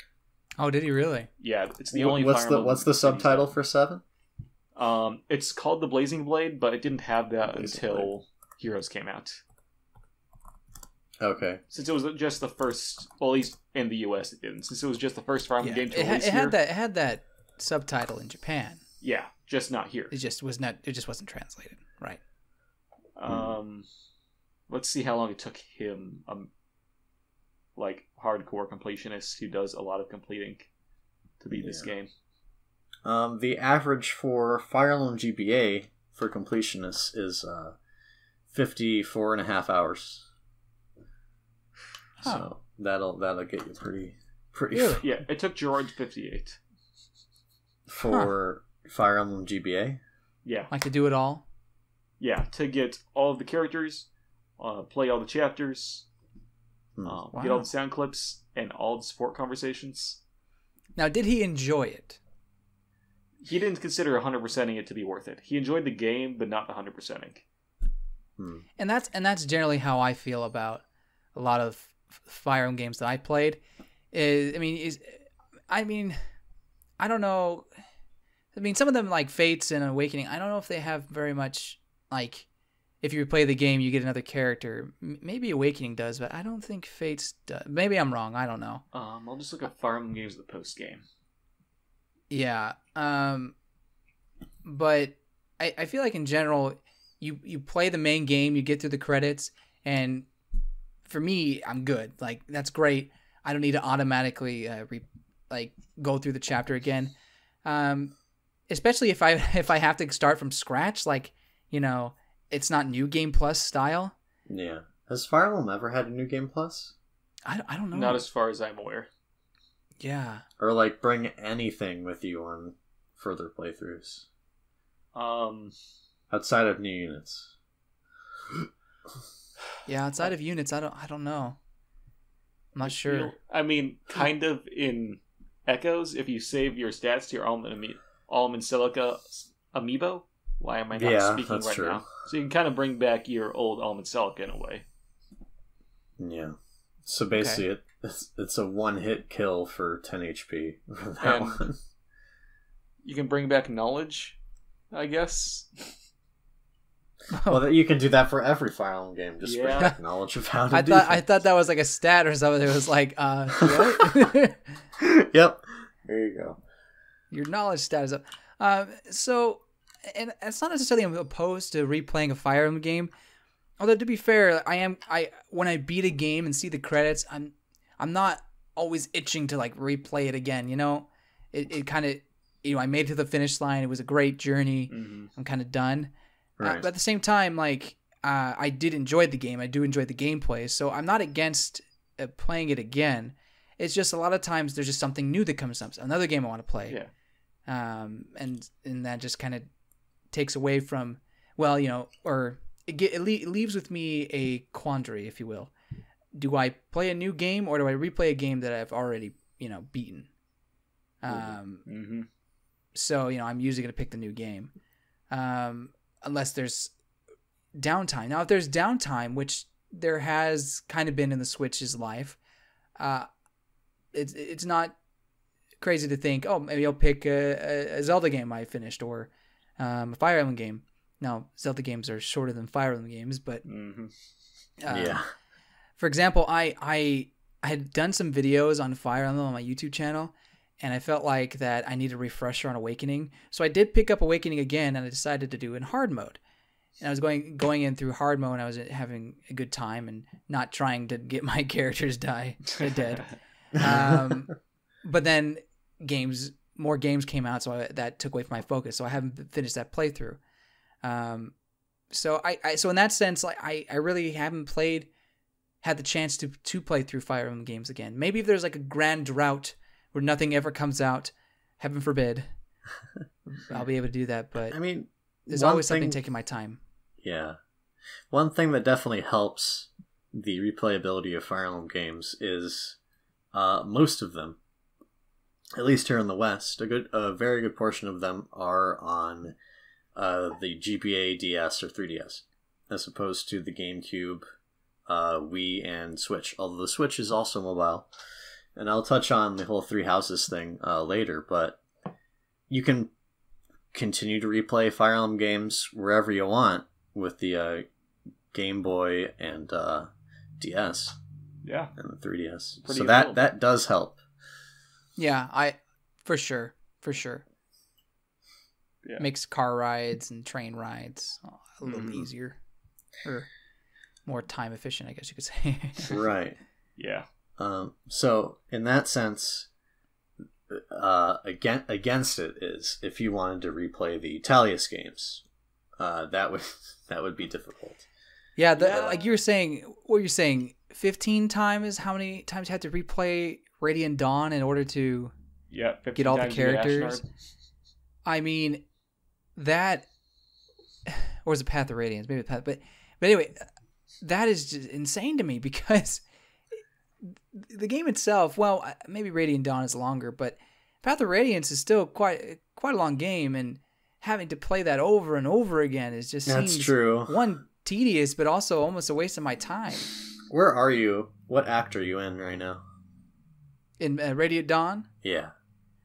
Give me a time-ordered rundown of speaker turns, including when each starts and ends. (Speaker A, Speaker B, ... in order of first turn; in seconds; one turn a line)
Speaker A: 0.6-1.3
Speaker B: 1.4-3.5
Speaker C: 1.9-4.0
Speaker B: 4.8-9.4
Speaker C: 7.5-8.1
Speaker C: 11.2-11.6
Speaker B: 11.7-16.6
Speaker A: 15.6-18.8
Speaker B: 19.0-20.1
Speaker A: 20.1-22.2
Speaker B: 23.1-23.9
Speaker C: 23.3-23.5
Speaker B: 24.7-26.5
Speaker B: 27.8-30.7
Speaker B: 31.4-32.1
Speaker C: 31.6-31.9
Speaker C: 33.0-37.8
Speaker C: 38.5-40.2
Speaker C: 42.2-45.0
Speaker A: 44.7-45.0
Speaker B: 45.0-46.6
Speaker C: 47.9-50.0
Speaker B: 50.4-50.7
Speaker A: 50.7-51.4
Speaker B: 52.2-56.1
Speaker B: 57.0-60.2
Speaker A: 57.3-57.7
Speaker A: 61.0-62.2
Speaker B: 63.4-67.4
Speaker C: 68.4-68.6
Speaker A: 68.8-70.8
Speaker A: 71.3-73.6
Speaker A: 74.1-76.2
Speaker A: 77.0-77.7
Speaker A: 78.5-82.5
Speaker A: 83.0-88.8
Speaker B: 88.9-91.0
Speaker A: 92.3-93.5
Speaker A: 94.6-100.3
Speaker A: 101.1-107.1
Speaker A: 107.6-108.1
Speaker A: 108.7-114.1
Speaker C: 114.5-116.9
Speaker A: 117.5-118.2
Speaker B: 117.9-119.1
Speaker A: 120.0-120.4
Speaker C: 120.6-124.2
Speaker B: 125.1-125.7
Speaker C: 126.3-127.5
Speaker A: 129.8-131.6
Speaker A: 132.7-133.3
Speaker B: 132.8-144.8
Speaker C: 140.9-142.0
Speaker C: 146.2-151.8
Speaker A: 147.3-147.6
Speaker B: 151.2-151.7
Speaker B: 153.0-154.4
Speaker B: 154.9-155.9
Speaker A: 157.3-157.6
Speaker C: 157.5-161.2
Speaker B: 159.4-159.9
Speaker A: 160.7-164.8
Speaker C: 163.6-164.1
Speaker C: 165.0-166.6
Speaker A: 167.3-173.1
Speaker A: 173.8-197.0
Speaker B: 184.9-185.3
Speaker C: 186.6-186.9
Speaker A: 197.7-199.7
Speaker A: 200.3-205.7
Speaker A: 206.3-210.3
Speaker A: 211.2-211.8
Speaker B: 211.4-212.3
Speaker A: 212.9-214.7
Speaker A: 215.3-216.9
Speaker A: 217.8-222.4
Speaker A: 223.0-223.3
Speaker A: 224.1-224.9
Speaker A: 225.8-233.6
Speaker B: 233.6-234.1
Speaker A: 234.8-235.2
Speaker C: 234.9-235.3
Speaker A: 236.0-246.4
Speaker A: 247.0-260.4
Speaker C: 253.8-254.3
Speaker A: 261.0-261.5
Speaker A: 262.1-265.1
Speaker A: 265.8-272.5
Speaker A: 273.5-274.8
Speaker C: 274.7-276.2
Speaker A: 275.5-276.8
Speaker C: 277.2-277.6
Speaker C: 278.3-283.0
Speaker C: 283.5-284.6
Speaker C: 285.8-289.6
Speaker C: 290.1-294.4
Speaker C: 295.1-298.1
Speaker C: 298.8-301.8
Speaker C: 302.7-303.1
Speaker C: 303.9-307.9
Speaker C: 308.5-311.2
Speaker B: 311.6-311.9
Speaker C: 312.0-314.2
Speaker B: 312.8-313.4
Speaker A: 315.2-317.4
Speaker A: 319.2-322.6
Speaker B: 321.8-322.2
Speaker A: 324.2-326.2
Speaker C: 326.0-326.6
Speaker B: 327.0-327.2
Speaker C: 327.6-329.7
Speaker C: 330.7-335.4
Speaker C: 336.0-338.0
Speaker A: 338.6-345.3
Speaker B: 338.7-339.3
Speaker B: 345.7-347.2
Speaker A: 346.1-347.2
Speaker A: 348.2-348.8
Speaker A: 349.6-350.0
Speaker A: 351.1-353.6
Speaker A: 354.2-356.2
Speaker A: 357.2-370.1
Speaker C: 366.4-367.4
Speaker C: 370.5-372.8
Speaker A: 374.0-375.1
Speaker C: 375.2-375.5